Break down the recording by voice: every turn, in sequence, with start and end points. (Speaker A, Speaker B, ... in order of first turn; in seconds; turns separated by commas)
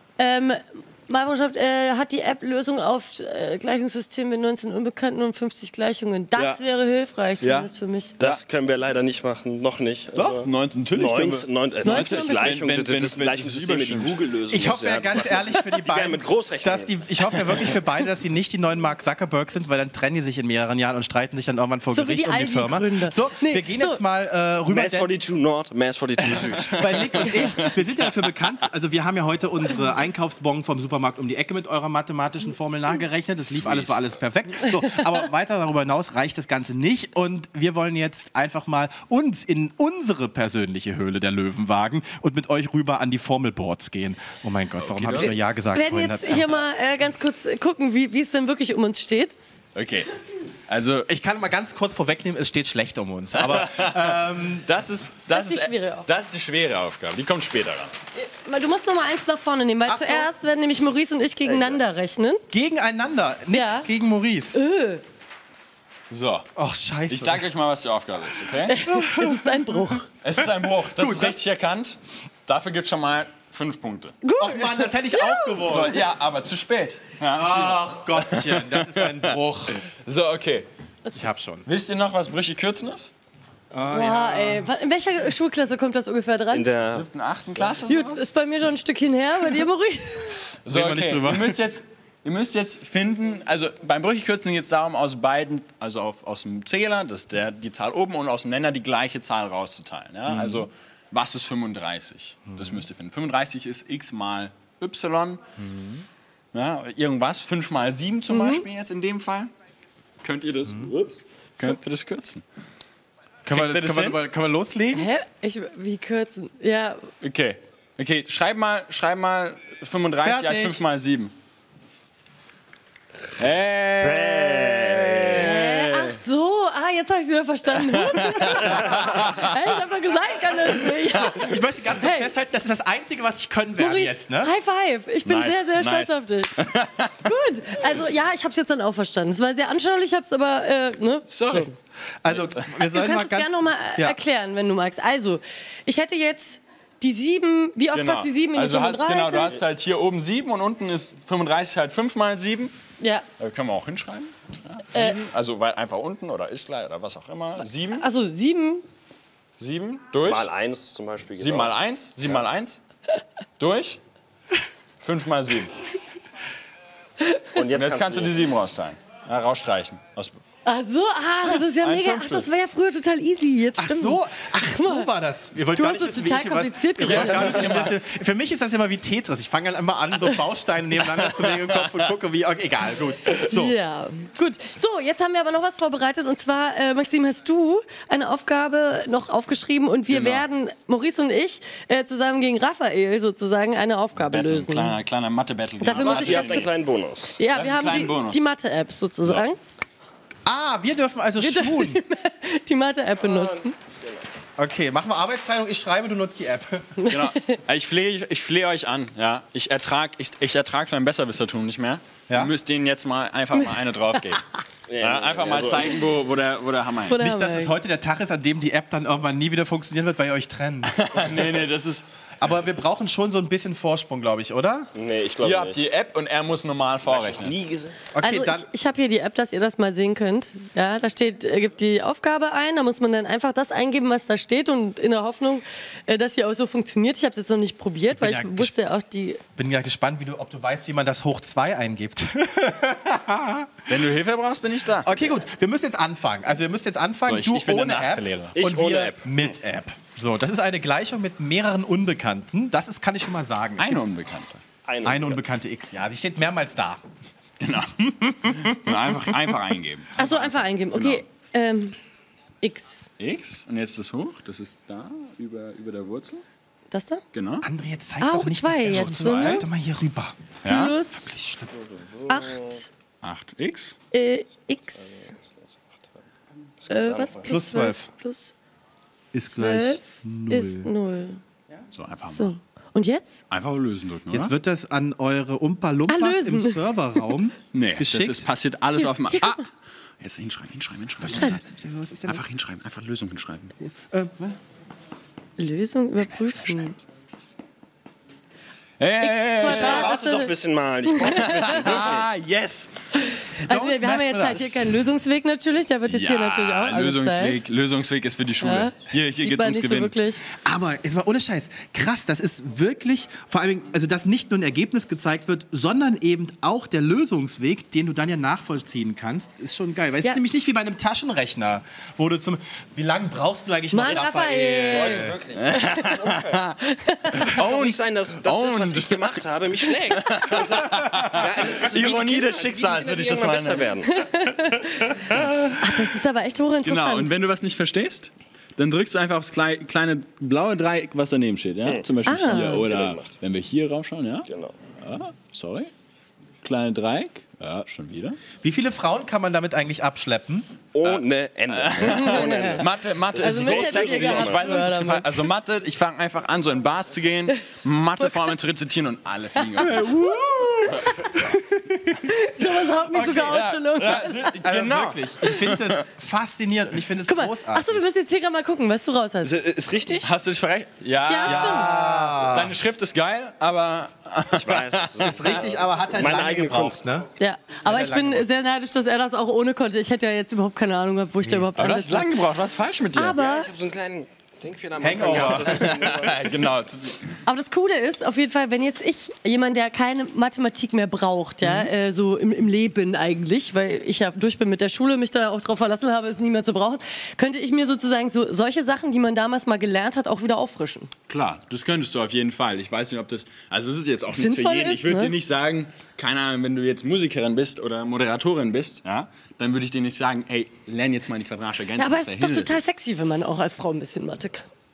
Speaker A: 0.2-8.1, Speaker B: 6.3-6.6, Speaker C: 7.4-8.4, Speaker B: 8.2-17.7, Speaker C: 10.2-14.2, Speaker A: 11.8-12.5, Speaker D: 14.5-25.1, Speaker A: 21.9-24.0, Speaker B: 24.7-27.2, Speaker D: 26.4-46.6, Speaker C: 27.1-27.8, Speaker C: 33.5-34.0, Speaker C: 44.8-45.4, Speaker A: 45.7-49.4, Speaker C: 49.8-50.1, Speaker C: 50.7-51.1, Speaker D: 51.1-54.7, Speaker C: 53.4-57.9, Speaker A: 55.3-56.1, Speaker A: 58.2-62.4, Speaker D: 59.9-60.3, Speaker B: 61.5-61.8, Speaker D: 62.5-64.7, Speaker A: 63.5-63.9, Speaker A: 64.5-65.0, Speaker C: 66.1-66.5, Speaker D: 66.6-67.5, Speaker C: 67.1-68.8, Speaker A: 68.6-70.1, Speaker D: 68.9-70.0, Speaker C: 70.2-74.2, Speaker D: 70.6-71.4, Speaker A: 74.2-75.6, Speaker D: 74.4-76.1, Speaker C: 75.6-80.7, Speaker D: 77.3-79.9, Speaker A: 81.1-81.3, Speaker D: 81.2-81.7, Speaker C: 81.7-83.1, Speaker D: 83.7-84.7, Speaker A: 83.9-86.7, Speaker B: 86.5-87.1, Speaker C: 86.8-88.3, Speaker A: 87.9-90.6, Speaker C: 90.5-105.4, Speaker D: 90.7-91.6, Speaker D: 100.3-100.6, Speaker D: 102.5-102.8, Speaker D: 105.6-106.0, Speaker C: 106.5-109.5, Speaker A: 108.3-108.6, Speaker C: 110.2-112.4, Speaker D: 113.5-115.1, Speaker C: 113.5-114.2, Speaker A: 114.9-117.1, Speaker C: 117.2-121.3, Speaker D: 120.2-120.8, Speaker C: 123.4-126.2, Speaker B: 123.8-125.4, Speaker A: 125.3-132.3, Speaker C: 127.8-129.4, Speaker D: 131.2-134.5, Speaker A: 133.8-136.6, Speaker C: 135.2-137.2, Speaker A: 137.2-141.7, Speaker C: 141.3-141.7, Speaker D: 142.2-144.2, Speaker C: 142.3-142.8, Speaker A: 142.8-149.6, Speaker C: 147.9-152.7, Speaker A: 153.0-153.3, Speaker C: 153.4-158.1, Speaker A: 154.9-155.2, Speaker A: 157.9-158.8, Speaker C: 159.6-160.5, Speaker B: 160.2-162.4, Speaker C: 161.4-162.8, Speaker C: 163.6-164.0, Speaker C: 165.0-165.7, Speaker B: 167.6-168.5, Speaker C: 167.7-170.4, Speaker A: 170.7-175.1, Speaker C: 171.4-172.5, Speaker D: 173.8-183.8, Speaker A: 175.7-177.8, Speaker C: 177.0-178.0, Speaker C: 181.2-182.1, Speaker A: 183.3-194.9, Speaker C: 190.1-190.4, Speaker C: 194.2-196.7, Speaker A: 195.8-196.7, Speaker B: 195.9-197.4, Speaker A: 197.4-199.6, Speaker C: 197.5-198.4, Speaker D: 200.4-202.0, Speaker A: 201.4-203.7, Speaker B: 203.2-204.3, Speaker D: 204.6-207.1, Speaker A: 207.0-207.5, Speaker C: 207.1-214.4, Speaker B: 214.9-216.0, Speaker C: 215.0-217.2, Speaker A: 217.1-217.7, Speaker D: 217.2-221.0, Speaker C: 220.9-222.1, Speaker D: 222.4-224.9, Speaker B: 224.9-225.9, Speaker C: 225.4-227.6, Speaker B: 227.1-228.1, Speaker D: 228.1-228.7, Speaker A: 228.2-239.4, Speaker D: 238.1-238.8, Speaker D: 239.6-243.8, Speaker C: 243.9-245.1, Speaker D: 245.0-254.1, Speaker C: 247.2-248.6, Speaker B: 248.6-249.5, Speaker C: 253.8-254.6, Speaker B: 254.8-255.4, Speaker D: 255.1-257.0, Speaker C: 257.6-261.2, Speaker A: 260.2-262.0, Speaker A: 262.6-263.1, Speaker C: 263.2-266.4, Speaker A: 266.9-267.2, Speaker C: 267.3-267.7, Speaker D: 267.6-270.5, Speaker A: 268.2-269.6, Speaker C: 268.9-269.6, Speaker C: 270.6-271.0, Speaker A: 270.6-271.4, Speaker D: 271.1-271.8, Speaker B: 271.9-272.7, Speaker A: 272.3-272.9, Speaker C: 273.2-274.0, Speaker A: 274.1-275.4, Speaker B: 275.2-276.0, Speaker B: 276.8-277.5, Speaker A: 276.9-278.5, Speaker D: 277.4-278.1, Speaker D: 279.3-280.9, Speaker A: 279.5-281.4, Speaker C: 281.9-282.5, Speaker A: 282.2-283.4, Speaker C: 283.5-284.5, Speaker D: 284.3-288.5, Speaker A: 286.1-286.8, Speaker C: 287.7-289.7, Speaker A: 289.3-289.6, Speaker C: 290.2-291.6, Speaker D: 291.2-292.4, Speaker C: 292.3-293.9, Speaker D: 294.1-294.6, Speaker A: 295.6-297.0, Speaker C: 299.0-299.9, Speaker A: 299.2-302.0, Speaker D: 299.6-300.4, Speaker B: 299.7-302.3, Speaker C: 301.2-302.9, Speaker A: 303.1-307.6, Speaker D: 303.6-304.9, Speaker C: 306.1-310.2, Speaker A: 308.6-310.5, Speaker D: 310.5-325.3, Speaker A: 323.9-326.1, Speaker C: 324.9-326.8, Speaker B: 324.9-326.6, Speaker A: 326.8-327.6, Speaker C: 327.3-334.0, Speaker B: 327.5-334.1, Speaker A: 334.1-337.4, Speaker C: 336.8-345.9, Speaker A: 342.2-342.9, Speaker B: 342.7-343.3, Speaker B: 344.5-344.8, Speaker C: 346.6-348.4, Speaker D: 348.6-350.7, Speaker B: 350.9-354.9, Speaker C: 351.0-360.1, Speaker A: 352.1-355.4, Speaker A: 359.7-360.4, Speaker D: 359.8-363.5, Speaker A: 361.0-361.4, Speaker A: 362.2-364.5, Speaker C: 363.2-366.0, Speaker D: 364.1-368.1, Speaker A: 367.2-369.6, Speaker B: 369.4-370.3, Speaker C: 370.2-375.3, Speaker A: 371.3-372.0, Speaker D: 371.4-372.7, Speaker B: 374.5-377.0, Speaker D: 375.2-377.3, Speaker A: 377.4-382.4, Speaker D: 377.8-378.5, Speaker C: 381.4-383.4, Speaker A: 383.1-383.7, Speaker B: 383.3-386.7, Speaker D: 385.0-385.9, Speaker C: 385.5-387.4, Speaker A: 387.4-401.1, Speaker C: 401.3-412.8, Speaker A: 404.3-405.3, Speaker A: 412.0-414.7